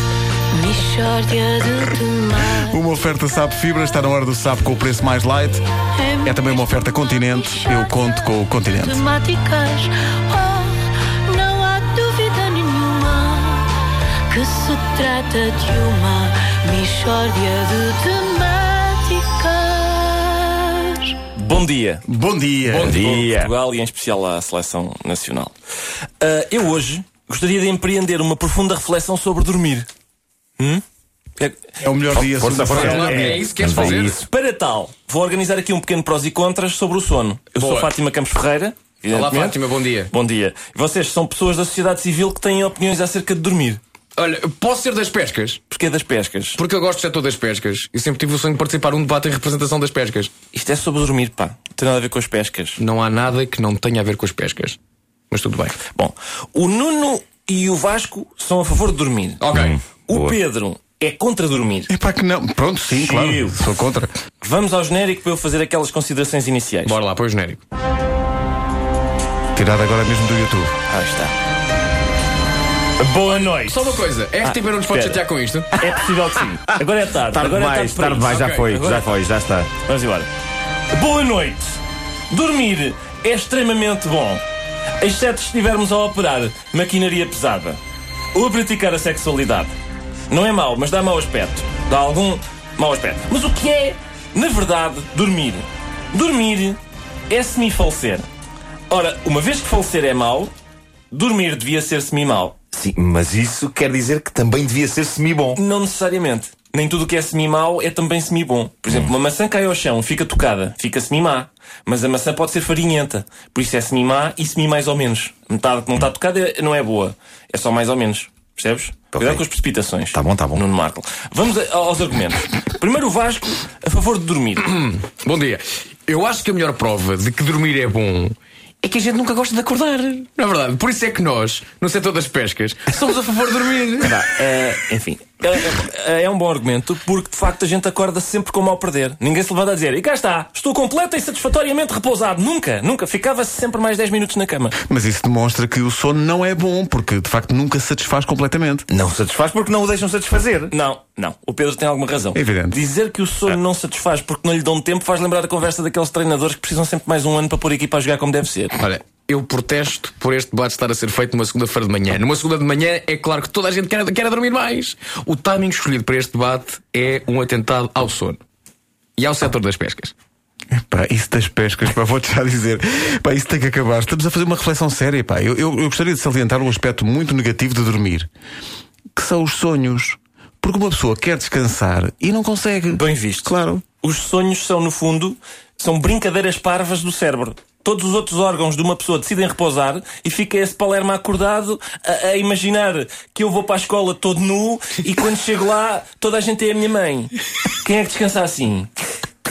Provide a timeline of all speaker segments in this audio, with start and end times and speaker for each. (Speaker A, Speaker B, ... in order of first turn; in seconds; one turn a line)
Speaker A: 0.5-2.8
Speaker B: 2.5-5.6
Speaker A: 5.9-21.2
Speaker B: 6.2-9.1
Speaker C: 21.4-22.0
Speaker B: 22.1-23.1
Speaker C: 22.7-25.5
Speaker D: 22.8-23.5
Speaker C: 26.2-29.9
Speaker B: 31.8-33.4
Speaker C: 32.1-43.8
Speaker D: 32.2-34.3
Speaker E: 32.7-34.2
Speaker E: 37.6-37.9
Speaker E: 39.1-40.1
Speaker E: 44.2-45.6
Speaker C: 45.7-46.6
Speaker E: 46.6-50.3
Speaker C: 50.5-52.8
Speaker E: 52.8-54.8
Speaker E: 55.3-55.8
Speaker C: 55.9-59.5
Speaker E: 59.4-59.8
Speaker D: 59.5-60.4
Speaker C: 60.1-61.9
Speaker B: 61.9-64.1
Speaker C: 62.9-63.7
Speaker C: 64.4-67.0
Speaker E: 66.8-67.6
Speaker B: 69.5-70.8
Speaker C: 70.9-71.3
Speaker C: 73.0-75.2
Speaker E: 73.6-75.7
Speaker C: 75.7-79.2
Speaker D: 77.3-79.7
Speaker E: 78.3-78.7
Speaker C: 79.8-80.3
Speaker C: 80.9-84.4
Speaker C: 85.0-87.8
Speaker C: 88.3-89.7
Speaker C: 90.3-98.3
Speaker C: 98.9-100.5
Speaker C: 101.1-102.6
Speaker D: 102.7-105.6
Speaker C: 105.5-124.8
Speaker D: 119.1-119.5
Speaker D: 120.1-120.6
Speaker E: 124.6-134.2
Speaker C: 134.1-144.8
Speaker B: 144.8-148.9
Speaker D: 148.9-150.7
Speaker C: 150.7-158.8
Speaker B: 152.3-152.8
Speaker E: 158.8-168.4
Speaker E: 169.2-170.1
Speaker B: 170.7-178.3
Speaker B: 179.2-183.8
Speaker C: 182.9-198.9